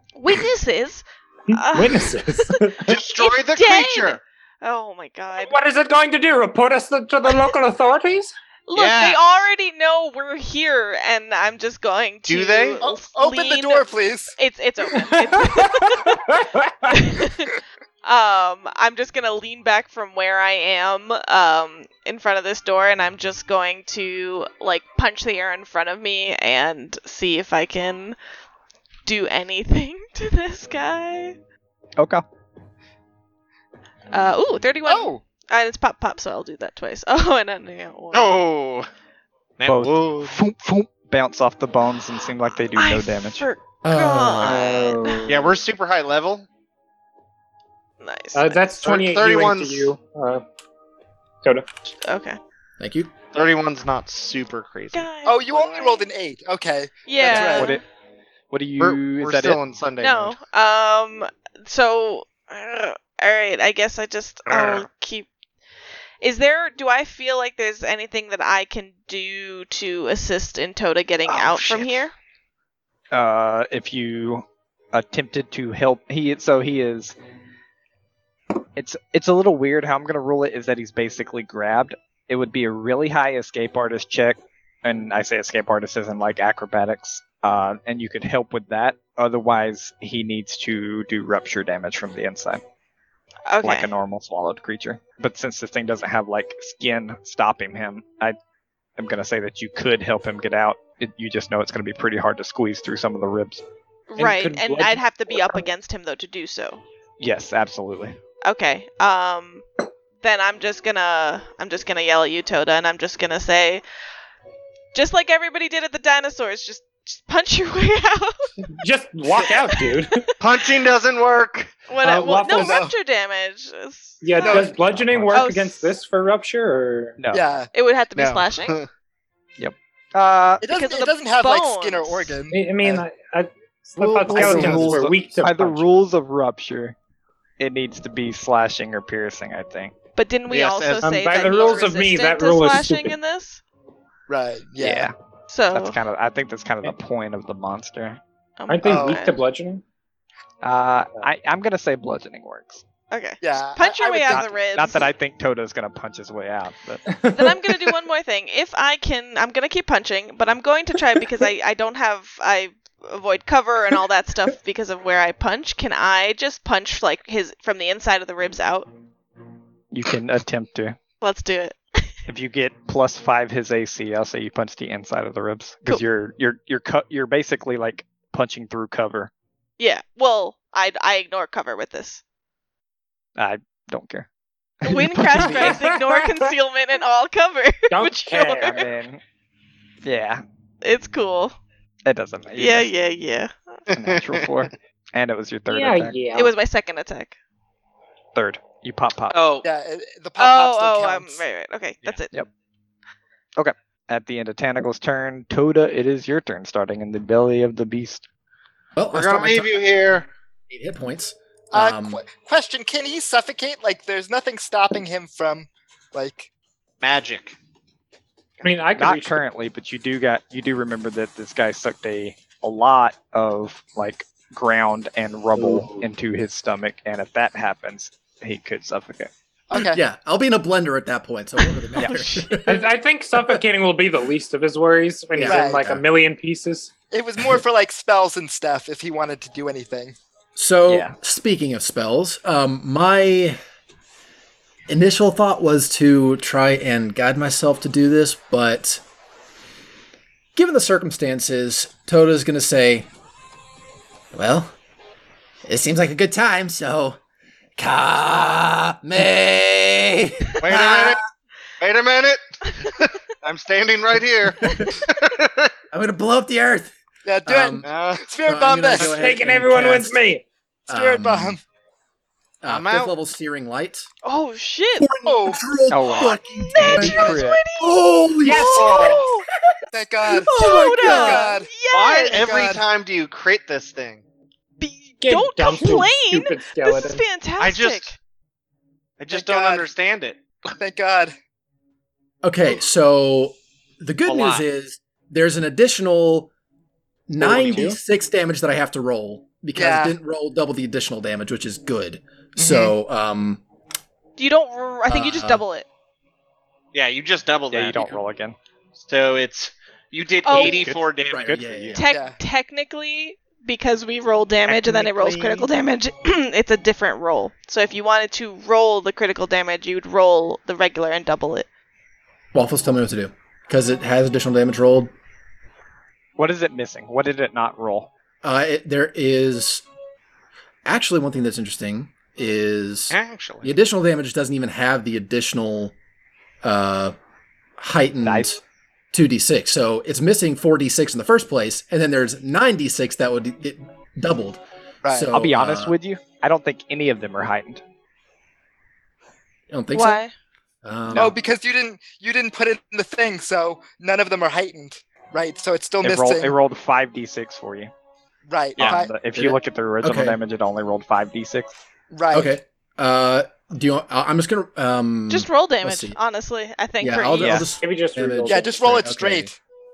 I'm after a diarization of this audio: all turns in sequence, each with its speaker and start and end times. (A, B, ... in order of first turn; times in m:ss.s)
0:00.2-0:05.5 A
0:01.5-0:03.0 B
0:02.8-0:04.2 C
0:05.3-0:08.3 B
0:08.7-0:16.2 A
0:08.7-0:09.5 C
0:12.3-0:12.8 C
0:12.8-0:14.3 D
0:14.9-0:17.1 B
0:16.9-0:28.2 A
0:29.0-0:31.4 A
0:32.0-0:32.2 E
0:34.1-0:38.4 A
0:34.8-0:35.2 D
0:38.1-0:38.9 C
0:39.6-0:40.4 C
0:39.7-0:43.4 E
0:42.7-0:45.4 A
0:43.8-0:44.7 F
0:44.4-0:44.7 C
0:45.2-0:46.5 C
0:48.0-0:48.8 A
0:48.3-0:50.4 B
0:48.8-0:49.9 C
0:52.0-0:52.4 A
0:52.8-0:53.1 F
0:53.3-0:55.1 C
0:54.9-0:56.1 A
0:55.2-0:57.7 D
0:57.0-0:57.8 A
0:57.2-0:57.8 E
0:58.5-0:59.6 E
0:58.8-1:00.4 C
1:00.0-1:05.3 A
1:04.5-1:04.9 C
1:06.2-1:12.1 A
1:11.3-1:11.9 C
1:13.1-1:17.2 E
1:18.8-1:32.6 E
1:33.5-1:33.9 A
1:33.6-1:38.4 E
1:39.0-1:43.6 E
1:44.1-1:46.8 A
1:44.2-1:45.6 B
1:47.2-1:48.2 E
1:48.4-1:49.6 A
1:50.2-1:53.8 A
1:54.9-1:58.5 A
1:58.7-2:00.3 B
1:59.4-2:00.3 A
2:00.4-2:01.8 C
2:01.9-2:04.7 A
2:02.0-2:02.8 B
2:02.4-2:02.9 D
2:04.2-2:07.2 B
2:04.4-2:04.7 D
2:04.9-2:05.3 F
2:05.3-2:05.9 A
2:07.2-2:07.4 E
2:07.3-2:07.7 D
2:07.7-2:08.8 A
2:08.2-2:08.9 C
2:09.6-2:10.6 E
2:10.6-2:13.0 D
2:10.7-2:12.4 A
2:12.5-2:15.9 B
2:14.0-2:15.1 F
2:14.3-2:16.9 E
2:14.4-2:14.8 C
2:17.6-2:19.9 E
2:20.2-2:23.6 A
2:20.5-2:21.8 C
2:21.0-2:23.2 B
2:24.3-2:25.1 D
2:24.8-2:25.1 E
2:25.5-2:26.0 A
2:25.7-2:28.2 E
2:28.6-2:29.4 A
2:28.7-2:29.8 B
2:28.9-2:29.2 D
2:30.6-2:32.8 E
2:33.1-2:35.1 A
2:33.4-2:34.6 D
2:34.3-2:37.0 E
2:37.1-2:37.9 B
2:37.3-2:48.9 A
2:49.9-2:51.0 E
2:51.2-2:52.1 A
2:52.3-2:59.3 E
2:59.8-3:02.2 A
3:03.4-3:04.3 E
3:04.8-3:08.9 A
3:04.8-3:05.8 E
3:05.3-3:06.5 B
3:07.9-3:08.8 B
3:08.6-3:09.2 E
3:10.0-3:10.4 E
3:10.8-3:11.6 A
3:12.0-3:12.9 E
3:12.6-3:13.8 A
3:13.9-3:16.2 E
3:13.9-3:14.5 C
3:15.7-3:16.5 B
3:16.3-3:17.4 A
3:18.3-3:19.5 E
3:19.3-3:19.6 C
3:19.6-3:21.4 D
3:20.4-3:22.3 A
3:23.6-3:28.2 E
3:29.0-3:29.7 F
3:29.1-3:30.3 C
3:30.7-3:32.2 F
3:31.7-3:36.5 D
3:37.0-3:37.6 C
3:38.6-3:39.4 B
3:38.9-3:49.3 E
3:45.6-3:45.9 B
3:49.7-3:50.0 D
3:49.7-3:52.9 F
3:52.0-3:52.3 E
3:52.1-3:52.5 A
3:52.6-3:56.9 B
3:55.3-3:56.0 F
3:55.4-3:55.9 D
3:57.1-4:00.2 D
4:00.5-4:03.6 F
4:00.9-4:01.1 E
4:04.9-4:09.0 F
4:10.5-4:13.1 F
4:14.3-4:14.7 F
4:15.6-4:17.2 F
4:17.8-4:21.2 F
4:20.6-4:21.2 C
4:21.8-4:25.7 C
4:24.6-4:25.0 F
4:25.9-4:26.9 F
4:27.2-4:29.2 D
4:27.4-4:27.9 F
4:27.8-4:28.2 C
4:28.4-4:30.2 F
4:29.0-4:30.4 B
4:30.9-4:31.6 F
4:30.9-4:31.6 D
4:32.6-4:34.1 F
4:32.7-4:33.1 C
4:34.2-4:35.2 A
4:35.0-4:39.4 F
4:35.2-4:35.6 D
4:35.9-4:37.6 E
4:36.5-4:37.9 A
4:37.0-4:37.4 D
4:38.4-4:38.9 B
4:38.6-4:39.2 D
4:38.7-4:39.2 C
4:38.9-4:39.4 A
4:39.9-4:41.7 D
4:40.3-4:41.5 F
4:40.5-4:42.5 A
4:41.9-4:44.2 C
4:42.3-4:42.8 D
4:44.8-4:48.2 A
4:45.2-4:47.2 B
4:47.6-4:48.1 C
4:49.2-4:50.4 C
4:49.3-4:49.9 D
4:50.8-4:51.3 D
4:52.4-4:56.5 F
4:54.2-4:54.6 C
4:57.3-5:03.6 F
4:57.4-4:58.0 C
4:59.7-5:00.2 D
5:02.6-5:02.9 D
5:04.4-5:05.8 A
5:05.1-5:05.6 F
5:06.9-5:08.2 C
5:07.7-5:08.6 E
5:09.0-5:12.0 C
5:10.4-5:10.8 A
5:10.5-5:11.6 E
5:11.3-5:12.0 F
5:11.9-5:21.6 A
5:12.1-5:12.4 D
5:14.6-5:15.7 E
5:22.5-5:25.1 F
5:26.4-5:28.1 E
5:28.4-5:29.8 F
5:30.8-5:35.9 F
5:33.1-5:33.7 C
5:36.6-5:37.1 F
5:37.8-5:38.6 F
5:38.2-5:38.5 E
5:39.1-5:46.0 F
5:45.0-5:45.3 D
5:45.3-5:47.8 E
5:49.7-5:50.2 F
5:49.9-5:50.3 A
5:50.8-5:51.3 F
5:51.1-5:51.3 E
5:51.1-5:56.6 D
5:56.0-5:57.9 E
5:58.5-5:59.1 D
5:58.8-6:01.7 E
5:58.8-6:00.4 F
6:02.1-6:02.5 D
6:02.3-6:06.2 F
6:05.3-6:07.7 A
6:07.0-6:09.5 F
6:07.4-6:07.7 E
6:07.8-6:08.7 B
6:08.5-6:09.6 D